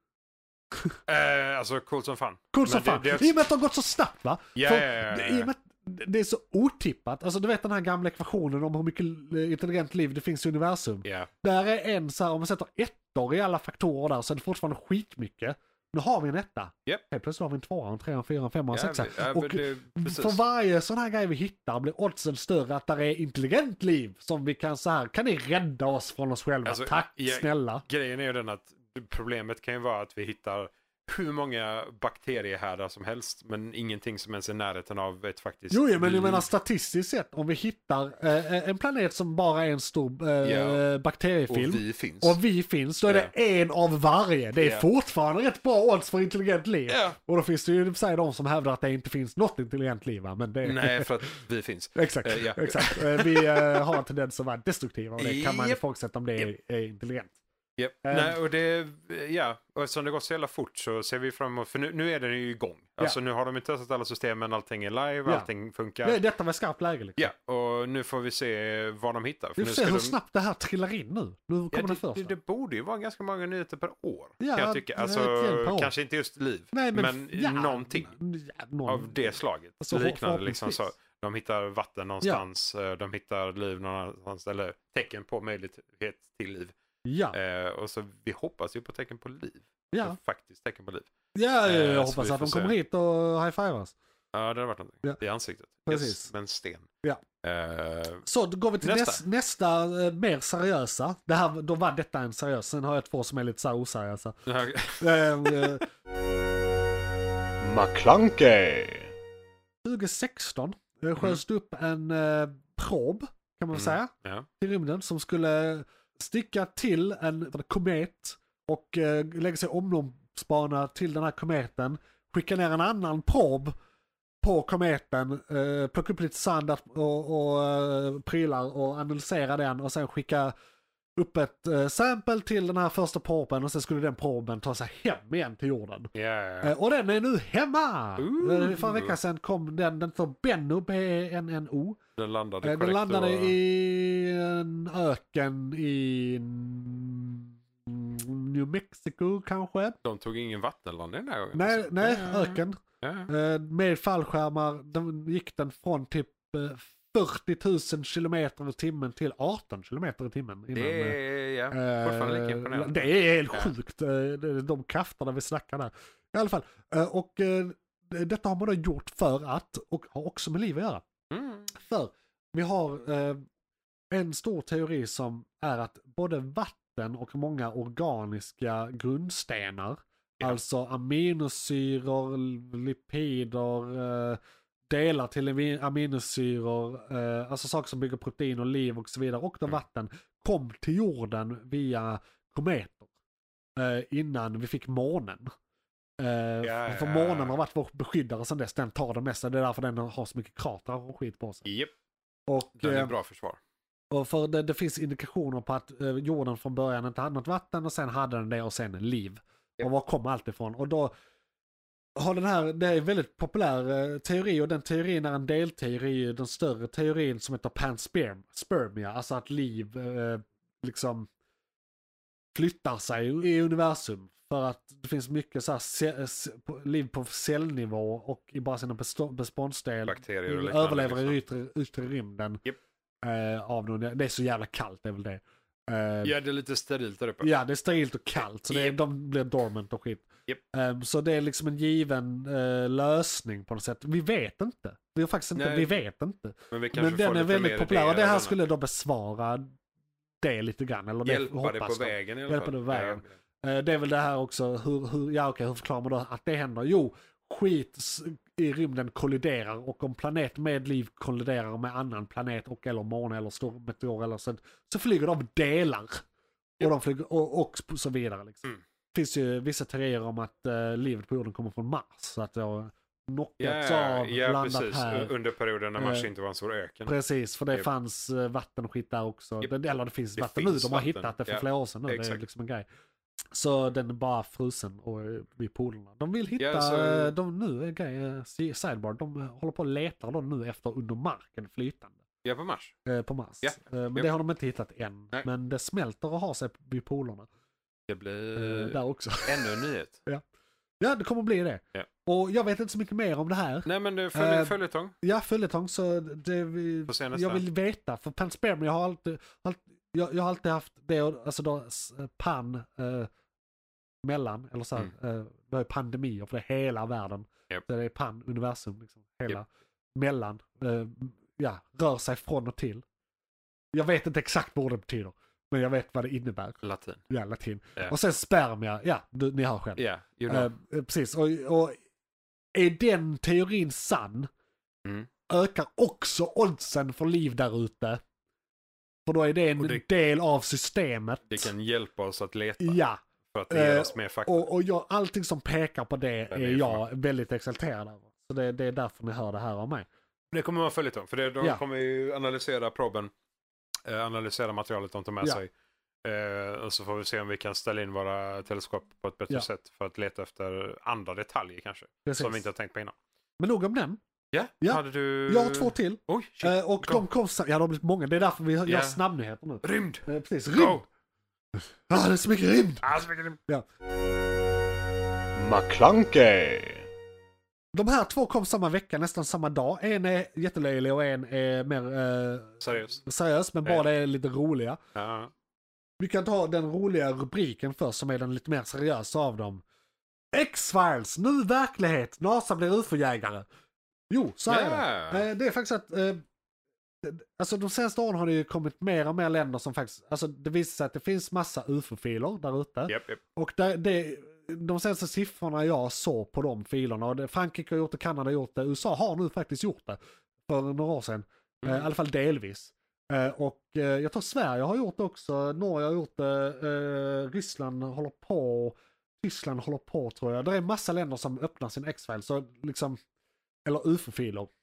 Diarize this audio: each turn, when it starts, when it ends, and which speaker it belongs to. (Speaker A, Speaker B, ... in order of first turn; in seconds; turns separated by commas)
Speaker A: 1.1-3.4, Speaker B: 2.5-27.8, Speaker A: 4.5-5.5, Speaker A: 11.1-11.3, Speaker A: 18.7-20.4, Speaker A: 26.6-36.5, Speaker B: 35.7-51.4, Speaker A: 40.4-40.8, Speaker A: 41.5-42.4, Speaker A: 44.6-44.9, Speaker A: 46.9-47.2, Speaker A: 50.6-54.0, Speaker B: 52.0-57.3, Speaker A: 55.2-55.8, Speaker A: 57.8-66.2, Speaker B: 58.0-58.4, Speaker B: 66.0-67.3, Speaker A: 67.2-70.2, Speaker B: 69.6-72.3, Speaker A: 71.7-78.1, Speaker B: 74.4-75.9, Speaker B: 76.7-80.8, Speaker A: 78.9-86.7, Speaker B: 87.0-87.4, Speaker A: 87.3-91.1, Speaker B: 89.9-90.2, Speaker B: 91.3-93.9, Speaker A: 91.6-92.7, Speaker A: 94.3-96.9, Speaker B: 95.8-96.3, Speaker A: 97.4-98.2, Speaker B: 98.2-104.4, Speaker A: 98.8-99.2, Speaker A: 104.5-105.8, Speaker B: 105.0-105.9, Speaker C: 107.6-109.1, Speaker B: 109.8-123.7, Speaker A: 113.7-114.5, Speaker B: 124.4-130.5, Speaker B: 131.2-136.1, Speaker A: 136.1-136.7, Speaker B: 136.6-142.0, Speaker A: 138.2-139.2, Speaker A: 142.2-143.6, Speaker B: 142.6-150.0, Speaker A: 150.0-153.3, Speaker B: 151.6-161.2, Speaker A: 160.7-163.7, Speaker B: 161.7-171.1, Speaker A: 171.3-171.7, Speaker B: 171.7-173.4, Speaker B: 174.1-193.1, Speaker B: 193.8-195.5, Speaker B: 196.2-201.7, Speaker A: 196.6-197.6, Speaker A: 201.6-201.9, Speaker B: 202.5-203.1, Speaker A: 202.8-203.6, Speaker B: 204.1-211.1, Speaker B: 212.2-221.3, Speaker B: 222.5-232.6, Speaker A: 230.1-231.4, Speaker B: 233.2-236.3, Speaker A: 236.2-237.5, Speaker B: 237.4-249.7, Speaker A: 238.7-239.0, Speaker A: 245.6-246.0, Speaker A: 246.7-248.6, Speaker B: 250.4-266.2, Speaker A: 251.2-253.3, Speaker B: 266.8-275.3, Speaker A: 273.6-277.1, Speaker B: 276.0-276.3, Speaker B: 277.1-282.8, Speaker A: 279.6-282.4, Speaker B: 283.5-292.2, Speaker A: 286.6-287.3, Speaker A: 292.4-292.9, Speaker B: 293.1-297.5, Speaker A: 293.6-294.3, Speaker A: 298.1-300.2, Speaker B: 298.6-300.4, Speaker B: 301.0-313.3, Speaker A: 303.9-305.1, Speaker A: 307.1-307.6, Speaker B: 314.2-323.0, Speaker B: 323.9-332.0, Speaker A: 326.8-327.2, Speaker A: 330.0-330.7, Speaker B: 332.7-334.5, Speaker B: 335.5-338.2, Speaker B: 339.3-341.7, Speaker A: 339.8-340.0, Speaker A: 341.5-343.0, Speaker B: 342.8-350.1, Speaker A: 343.5-344.7, Speaker A: 346.5-347.0, Speaker A: 350.5-353.3, Speaker A: 354.1-355.7, Speaker A: 356.2-363.1, Speaker B: 362.2-362.6, Speaker B: 363.6-364.2, Speaker A: 364.5-367.3, Speaker B: 364.8-371.1, Speaker A: 368.9-369.2, Speaker A: 369.8-371.1, Speaker B: 372.1-373.1, Speaker A: 373.0-373.6, Speaker C: 375.6-377.1, Speaker B: 377.9-385.0, Speaker A: 382.8-383.2, Speaker A: 385.1-385.5, Speaker B: 386.2-389.8, Speaker B: 390.5-393.6, Speaker B: 394.3-396.4, Speaker A: 394.6-395.4, Speaker B: 397.2-423.2, Speaker A: 403.1-403.4, Speaker A: 411.8-412.1, Speaker B: 423.9-424.7